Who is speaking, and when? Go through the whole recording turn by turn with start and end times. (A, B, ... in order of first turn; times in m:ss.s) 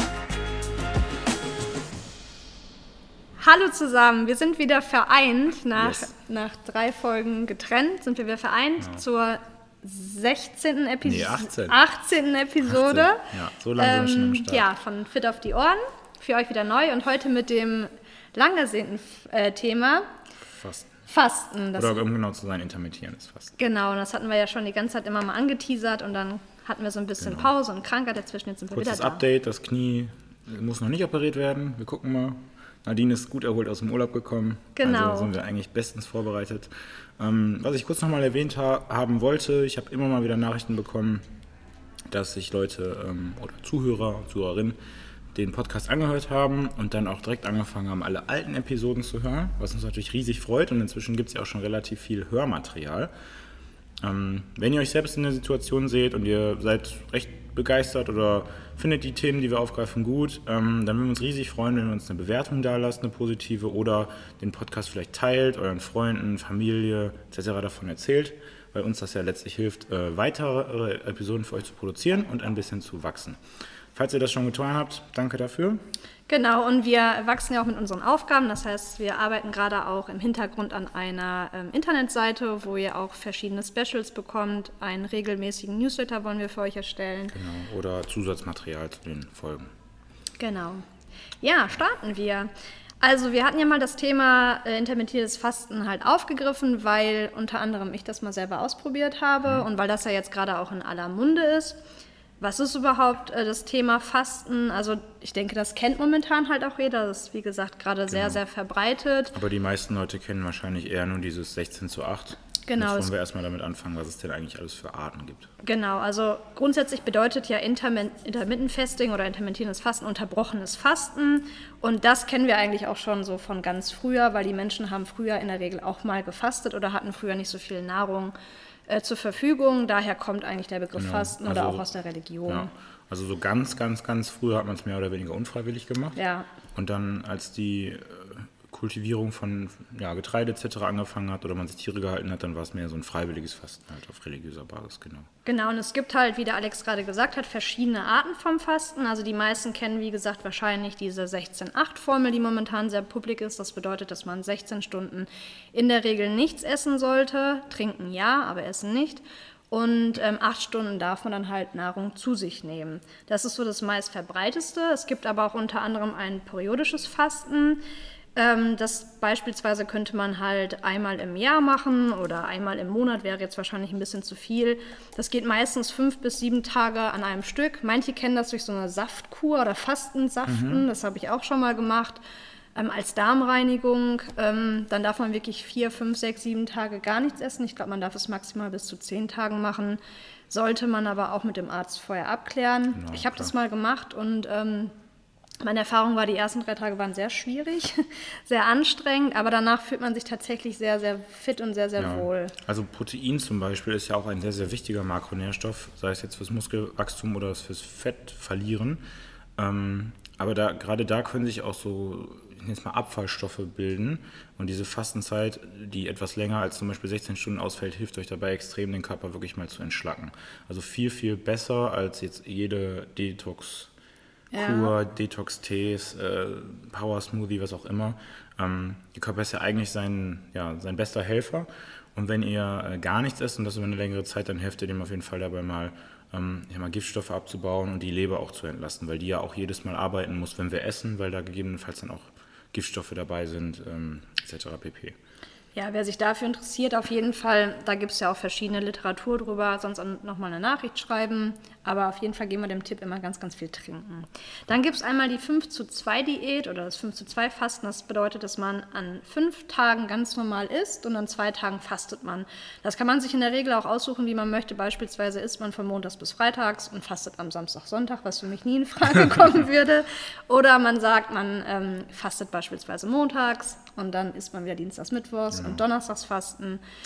0:03.4-0:13.3 A
0:05.8-0:06.1 B
0:11.0-0:11.8 B
0:12.7-0:14.7 B
0:13.8-0:20.1 A
0:20.5-0:20.9 B
0:21.1-0:22.0 A
0:21.8-0:23.6 B
0:23.6-0:29.2 A
0:27.2-0:27.5 B
0:28.7-0:41.2 B
0:34.8-0:35.3 A
0:42.1-0:44.8 B
0:45.3-0:53.1 B
0:54.0-1:13.4 B
1:13.9-1:15.8 B
1:16.3-1:27.4 A
1:27.3-1:29.7 B
1:30.4-1:30.8 A
1:31.4-1:41.8 A
1:42.4-1:49.4 A
1:48.1-1:48.4 B
1:49.3-1:55.5 B
1:52.7-1:53.1 A
1:55.6-2:08.4 A
2:08.9-2:12.7 A
2:11.0-2:11.9 B
2:12.5-2:16.2 B
2:16.2-2:16.5 A
2:16.8-2:25.3 B
2:25.4-2:47.8 A
2:48.4-3:02.2 A
3:00.5-3:00.8 B
3:02.8-3:14.9 A
3:12.9-3:13.5 B
3:15.6-3:22.6 A
3:22.0-3:29.0 B
3:29.6-3:43.9 B
3:44.5-3:44.9 A
3:44.5-4:05.2 B
4:05.7-4:36.8 A
4:35.5-4:35.8 B